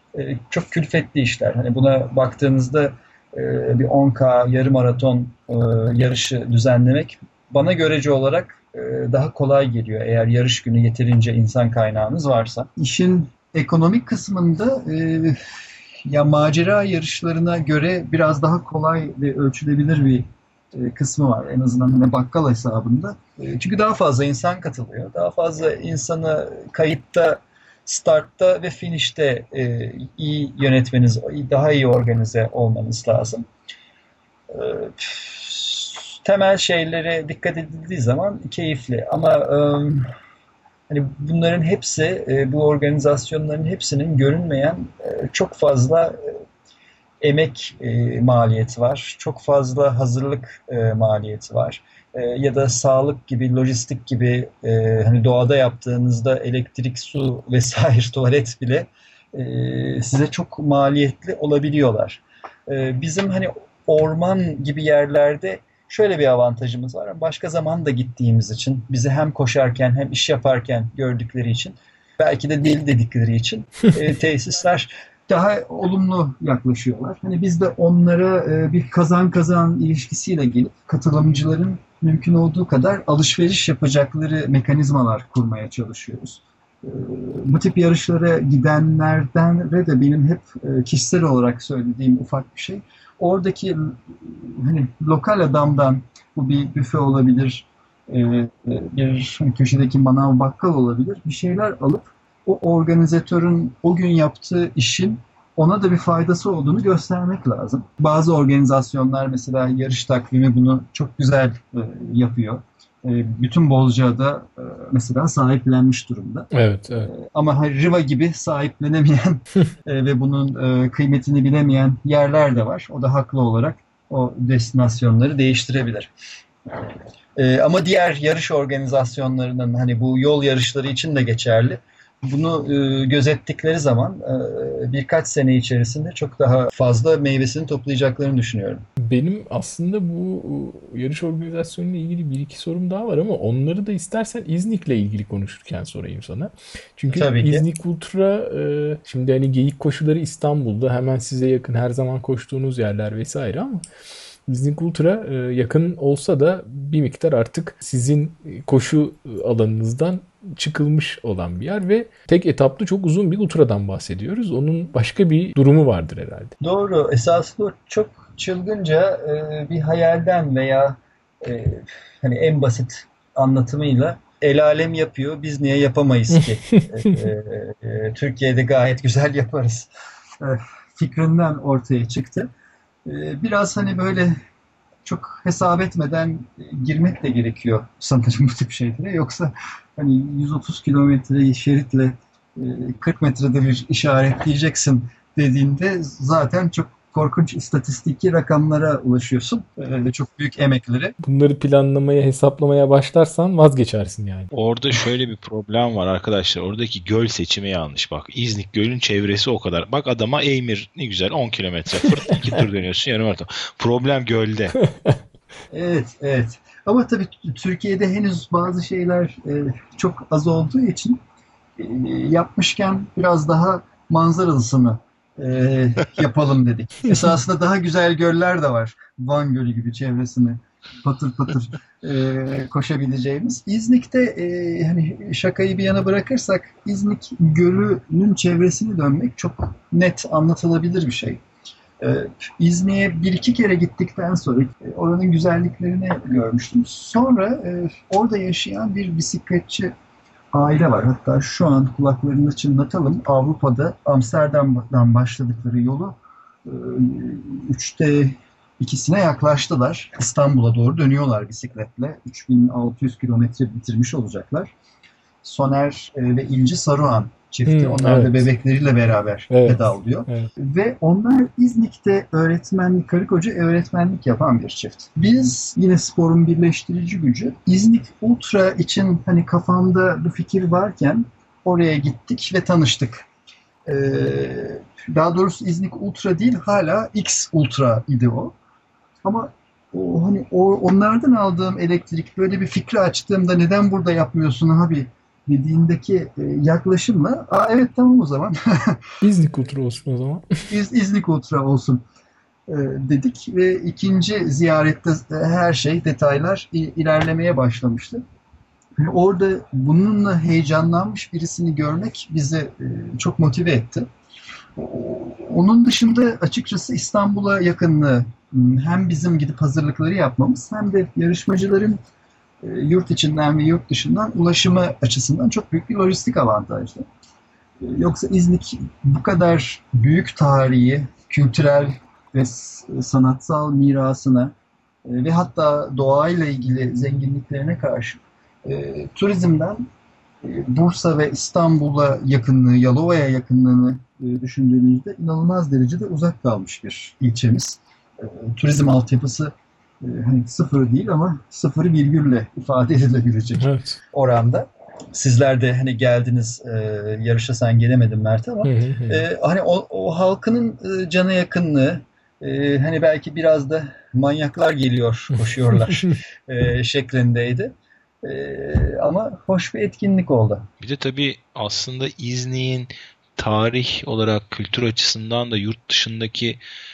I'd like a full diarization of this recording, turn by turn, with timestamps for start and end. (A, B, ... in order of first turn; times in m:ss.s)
0:00.1-0:15.4 A
0:16.0-0:33.5 A
0:34.5-0:40.1 A
0:40.9-0:46.4 A
0:47.2-2:06.1 A
1:56.5-1:57.1 B
2:06.7-2:18.9 A
2:19.0-2:33.8 B
2:27.1-2:27.6 A
2:34.5-2:46.6 B
2:46.6-3:02.5 A
3:03.0-3:04.4 A
3:05.0-3:21.2 A
3:21.2-3:24.5 B
3:24.5-3:34.8 C
3:35.7-3:41.2 A
3:41.8-4:01.4 A
4:02.0-4:09.9 A
4:10.5-4:24.7 A
4:25.4-4:43.3 A
4:27.7-4:28.4 B
4:29.5-4:30.5 B
4:43.9-4:48.5 A
4:49.2-4:59.2 A
4:59.2-5:00.7 B
5:00.7-5:02.0 A
5:02.7-5:08.2 A
5:09.0-5:14.1 A
5:14.8-5:22.0 A
5:22.6-5:27.1 A
5:27.8-5:34.5 A
5:35.0-5:39.9 A
5:40.4-6:10.7 A
5:53.6-5:54.0 B
5:58.6-5:59.2 B
6:10.8-6:16.6 C